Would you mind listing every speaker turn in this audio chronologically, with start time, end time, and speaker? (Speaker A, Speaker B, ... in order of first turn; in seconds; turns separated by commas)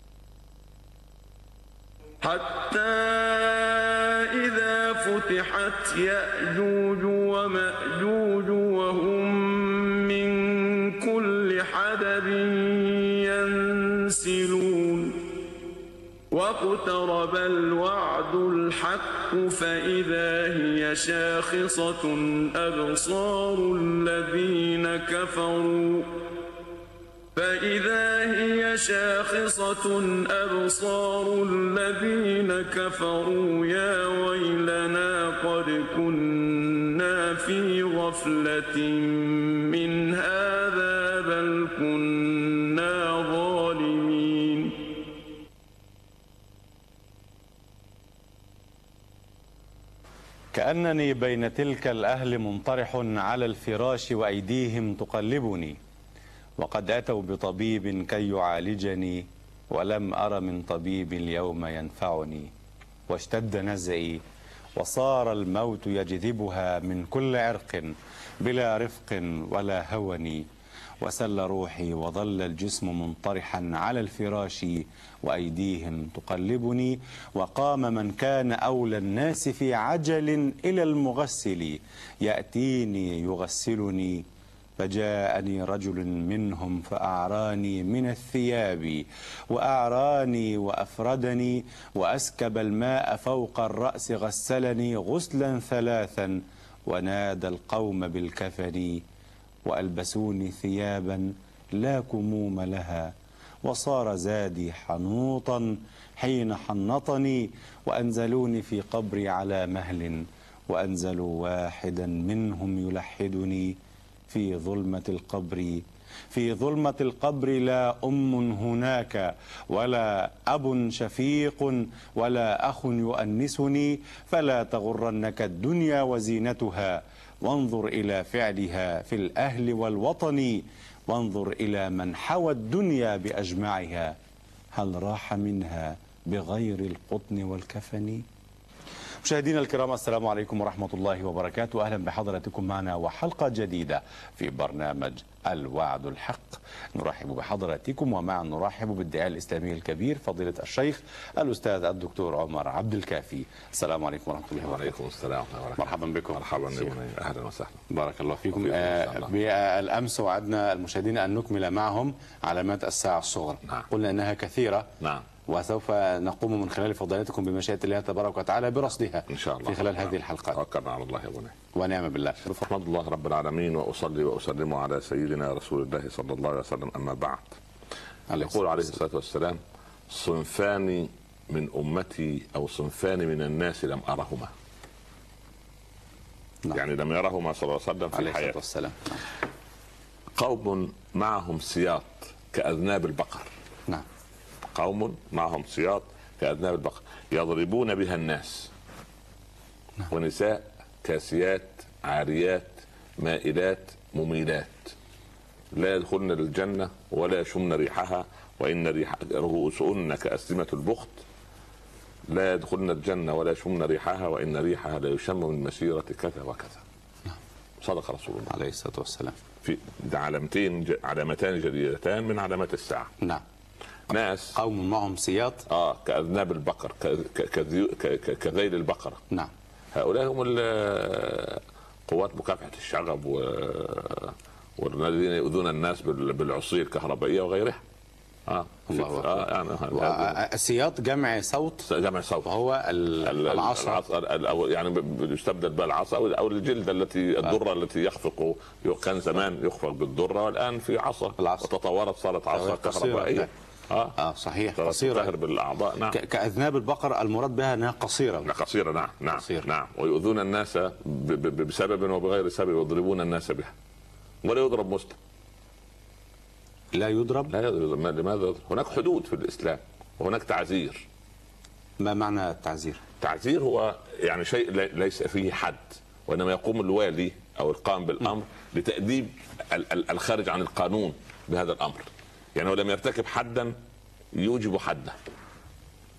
Speaker A: 2.2-15.2, Speaker A: 16.3-26.1, Speaker A: 27.3-44.8, Speaker B: 50.5-55.8, Speaker B: 56.6-62.5, Speaker B: 63.1-64.2, Speaker B: 64.8-70.4, Speaker B: 71.0-84.2, Speaker B: 84.8-99.0, Speaker B: 99.6-113.8, Speaker B: 114.3-134.2, Speaker B: 134.7-138.2, Speaker B: 139.2-154.9, Speaker C: 154.6-157.9, Speaker B: 155.8-156.9, Speaker B: 157.9-164.9, Speaker C: 158.4-159.3, Speaker C: 165.0-165.2, Speaker B: 165.4-170.6, Speaker C: 169.3-171.5, Speaker B: 171.7-172.6, Speaker C: 172.4-177.6, Speaker B: 178.3-178.8, Speaker C: 178.4-184.5, Speaker C: 186.7-188.6, Speaker B: 188.1-189.2, Speaker C: 190.3-193.5, Speaker C: 194.7-198.7, Speaker C: 200.1-204.9, Speaker C: 205.7-211.2, Speaker C: 212.3-216.8, Speaker C: 217.8-218.5, Speaker B: 218.5-219.4, Speaker C: 219.6-223.1, Speaker C: 224.1-224.6, Speaker B: 224.5-225.7, Speaker C: 225.7-229.2, Speaker C: 229.9-237.8, Speaker C: 238.4-240.4, Speaker B: 238.9-241.9, Speaker C: 241.8-242.6, Speaker B: 242.4-244.0, Speaker C: 243.2-254.2, Speaker B: 251.4-251.7, Speaker B: 252.5-253.5, Speaker B: 254.1-255.3, Speaker C: 254.7-256.2, Speaker B: 256.1-258.5, Speaker C: 258.4-263.7, Speaker B: 259.3-259.6, Speaker C: 264.4-265.1, Speaker B: 266.9-267.5, Speaker C: 267.5-271.1, Speaker B: 272.0-273.0, Speaker C: 273.2-283.7, Speaker C: 284.3-285.1